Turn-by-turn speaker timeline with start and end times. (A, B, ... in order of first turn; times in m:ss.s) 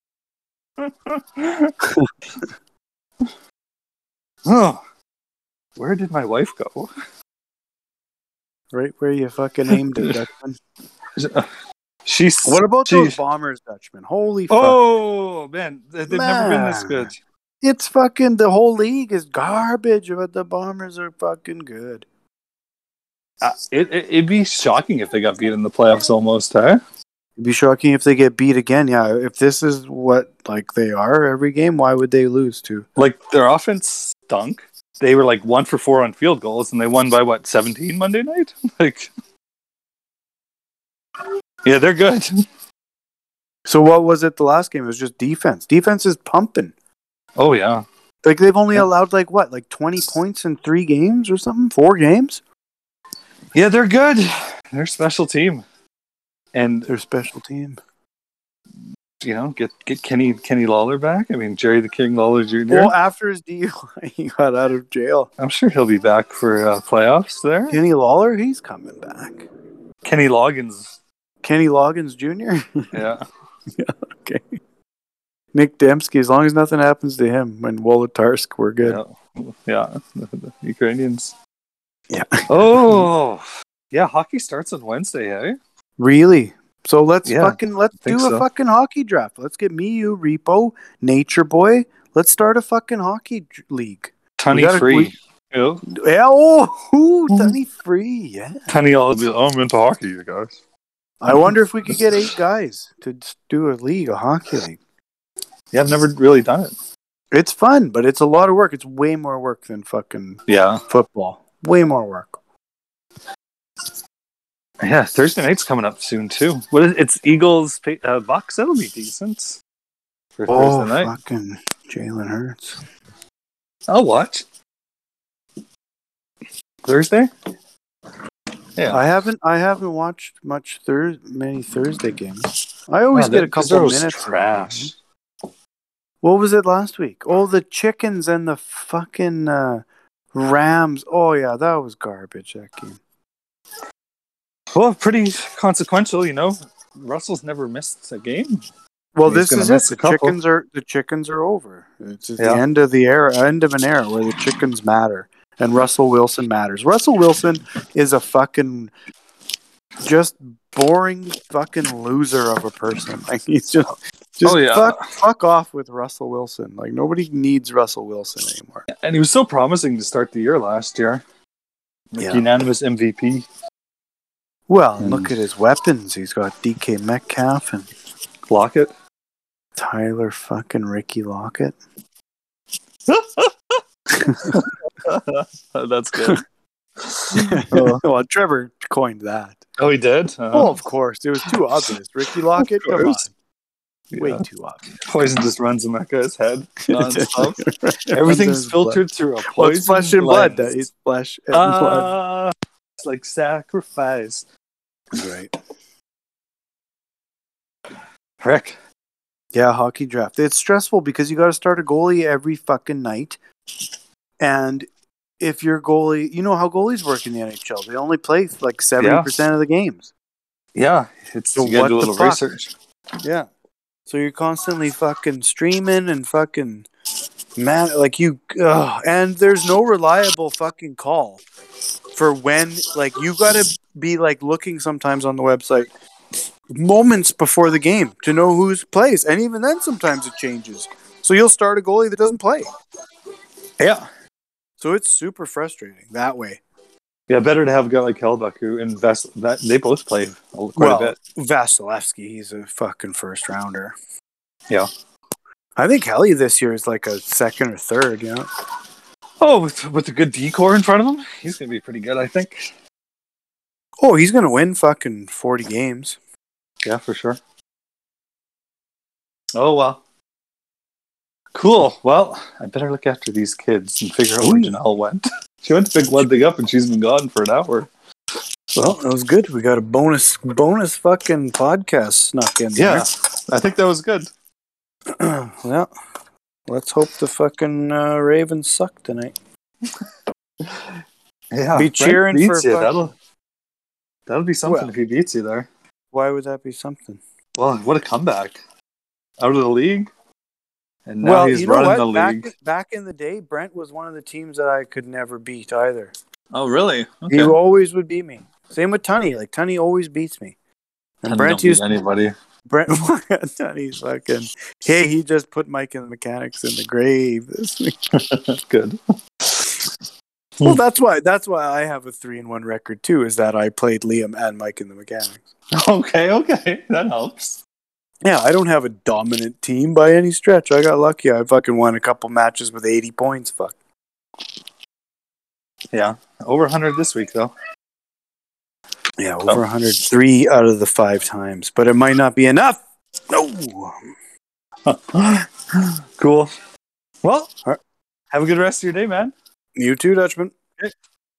0:00.8-0:01.8 A
0:04.4-0:04.8 A
0:05.8-0:06.9 A
0:08.7-0:10.6 B
0:09.7-0:10.1 A
0:11.1-0:11.5 A
0:12.0-0:13.2 A
0:12.4-0:14.8 B
0:14.5-0:17.2 A
0:16.1-0:17.1 B
0:17.6-0:22.0 B
0:23.4-0:26.8 A
0:27.4-0:32.9 B
0:33.0-0:39.1 A
0:41.6-0:42.4 A
0:43.7-0:46.7 B
0:47.4-0:47.9 A
0:48.2-0:52.4 B
0:53.5-0:55.6 A
0:56.5-0:56.9 A
0:56.9-0:57.8 B
0:59.2-1:02.9 A
1:02.7-1:05.3 B
1:05.4-1:07.8 A
1:07.7-1:09.5 B
1:10.0-1:11.0 A
1:11.4-1:12.9 B
1:12.9-1:13.2 A
1:13.8-1:14.6 B
1:15.5-1:19.0 B
1:18.8-1:21.3 A
1:22.1-1:23.1 B
1:22.5-1:25.6 A
1:26.0-1:35.1 B
1:27.2-1:28.4 A
1:34.4-1:35.8 A
1:35.9-1:38.7 B
1:38.7-1:40.6 A
1:41.2-1:44.8 B
1:41.5-1:42.0 A
1:45.7-1:46.7 A
1:47.3-1:52.4 B
1:50.5-1:50.8 A
1:54.8-1:59.6 A
2:00.4-2:01.1 A
2:00.5-2:02.8 B
2:03.9-2:04.4 A
2:06.8-2:07.3 A
2:08.8-2:09.0 A
2:08.9-2:14.9 B
2:13.1-2:14.9 A
2:16.2-2:23.0 B
2:24.7-2:28.6 A
2:29.1-2:38.9 B
2:29.3-2:30.4 A
2:40.0-2:48.8 B
2:44.4-2:45.1 A
2:48.9-2:51.2 A
2:52.1-2:53.4 A
2:52.2-2:52.4 B
2:54.7-2:57.9 B
2:55.0-2:55.3 A
2:58.5-2:58.9 A
2:59.8-3:01.8 B
3:03.1-3:06.4 A
3:04.1-3:04.7 B
3:07.0-3:08.0 A
3:07.3-3:09.6 B
3:09.8-3:10.7 A
3:10.5-3:13.3 B
3:11.4-3:11.8 A
3:12.6-3:13.2 A
3:14.1-3:14.4 A
3:14.2-3:14.9 B
3:15.0-3:20.7 A
3:16.9-3:22.1 B
3:21.5-3:24.4 A
3:25.1-3:25.5 B
3:28.4-3:28.8 A
3:29.5-3:33.4 B
3:34.4-3:34.9 B
3:35.4-3:40.1 B
3:39.0-3:39.3 A
3:40.7-3:42.7 A
3:41.6-3:42.4 B
3:43.2-3:43.5 B
3:44.1-3:46.9 B
3:47.6-3:51.4 B
3:52.1-3:55.9 B
3:56.7-4:02.7 B
4:03.8-4:04.0 A
4:04.8-4:06.6 B
4:07.3-4:11.2 A
4:10.8-4:14.0 B
4:15.8-4:18.5 B
4:19.4-4:22.7 A
4:24.0-4:26.2 B
4:26.8-4:27.4 A
4:29.6-4:30.0 A
4:31.5-4:37.9 A
4:34.4-4:34.8 B
4:38.8-4:43.1 B
4:42.8-4:44.3 A
4:45.2-4:45.9 B
4:46.7-4:49.3 B
4:50.6-4:51.0 A
4:51.5-4:53.1 A
4:51.7-4:52.9 B
4:54.3-4:55.7 A
4:54.6-4:54.9 B
4:56.1-4:57.2 B
4:57.6-4:58.6 A
4:59.4-5:00.1 A
5:01.1-5:02.5 A
5:01.2-5:06.1 B
5:06.5-5:07.6 A
5:07.3-5:10.6 B
5:11.2-5:11.9 B
5:11.3-5:12.3 A
5:12.7-5:18.0 B
5:18.1-5:19.8 A
5:20.6-5:25.4 B
5:25.7-5:27.6 A
5:28.2-5:33.7 B
5:35.9-5:37.5 A
5:39.2-5:44.0 B
5:44.9-5:46.5 A
5:47.2-5:47.5 A
5:48.3-5:49.3 A
5:49.8-5:50.6 B